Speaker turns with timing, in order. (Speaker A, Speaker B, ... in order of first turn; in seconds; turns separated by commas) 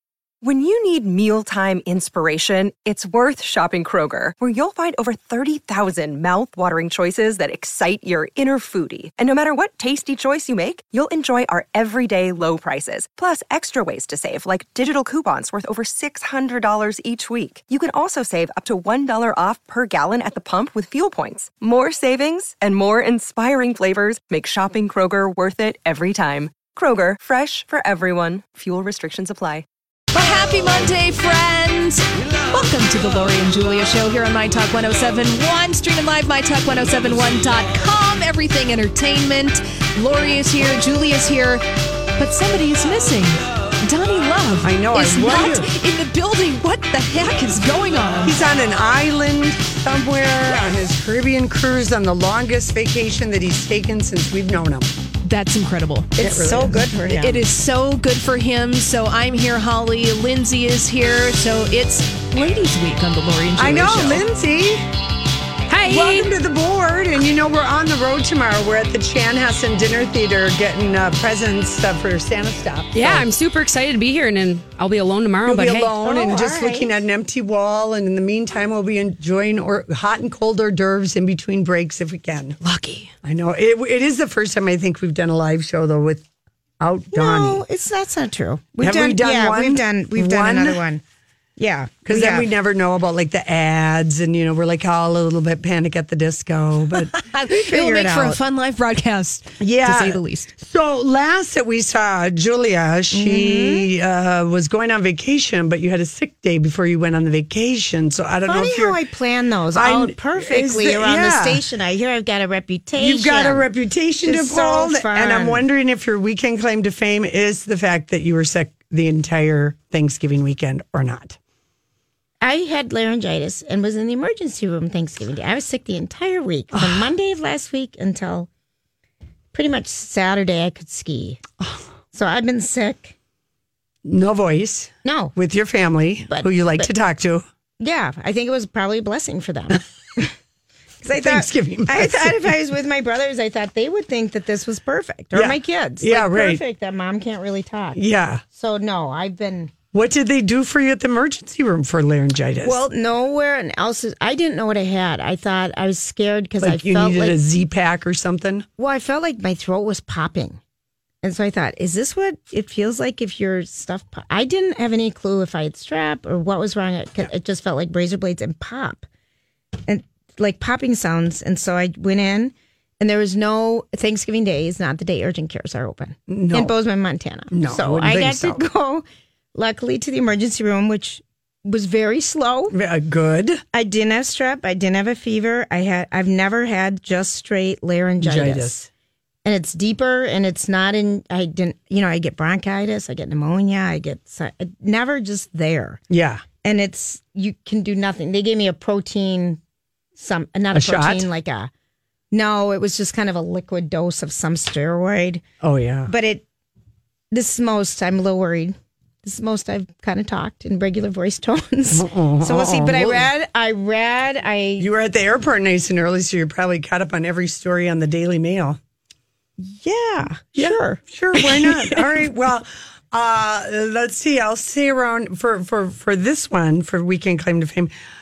Speaker A: 0.4-29.6, Speaker B: 30.1-41.6, Speaker B: 42.2-48.4, Speaker C: 44.6-45.7, Speaker C: 48.2-54.9, Speaker B: 55.2-56.1, Speaker D: 56.2-57.4, Speaker C: 56.2-57.1, Speaker B: 57.1-64.3, Speaker C: 63.5-64.8, Speaker B: 65.7-66.3, Speaker C: 65.9-73.3, Speaker E: 72.9-76.0, Speaker C: 75.4-82.6, Speaker D: 76.0-76.9, Speaker C: 83.2-86.2, Speaker C: 86.8-87.6, Speaker D: 87.1-91.0, Speaker C: 88.8-90.8, Speaker D: 91.6-92.5, Speaker C: 92.0-97.1, Speaker B: 97.2-100.5, Speaker D: 97.6-98.4, Speaker C: 99.6-109.0, Speaker D: 103.1-103.9, Speaker D: 108.5-113.6, Speaker C: 109.7-111.6, Speaker C: 113.0-121.4, Speaker D: 114.2-115.6, Speaker D: 122.4-128.5, Speaker C: 126.7-127.1, Speaker D: 129.5-131.4, Speaker D: 132.1-133.1, Speaker C: 134.1-137.4, Speaker D: 135.0-135.3, Speaker D: 136.3-136.9, Speaker D: 137.8-140.3, Speaker D: 141.0-148.0, Speaker C: 141.1-142.5, Speaker C: 145.3-146.6, Speaker C: 147.9-148.4, Speaker D: 148.6-149.7, Speaker C: 149.9-152.8, Speaker D: 152.6-157.4, Speaker C: 156.6-158.7, Speaker D: 158.8-160.6, Speaker D: 161.2-169.1, Speaker D: 169.9-182.7, Speaker C: 176.3-176.7, Speaker C: 177.5-178.6, Speaker C: 182.7-183.6, Speaker D: 183.7-188.7, Speaker C: 188.2-188.9, Speaker D: 189.4-196.0, Speaker C: 196.1-196.4, Speaker D: 196.6-199.6, Speaker D: 200.2-201.7, Speaker C: 200.7-201.3, Speaker D: 202.3-205.4, Speaker C: 205.6-206.1, Speaker D: 206.1-206.4, Speaker D: 207.3-214.9, Speaker C: 211.9-213.3, Speaker C: 214.8-218.8, Speaker D: 219.6-222.0, Speaker C: 220.6-227.9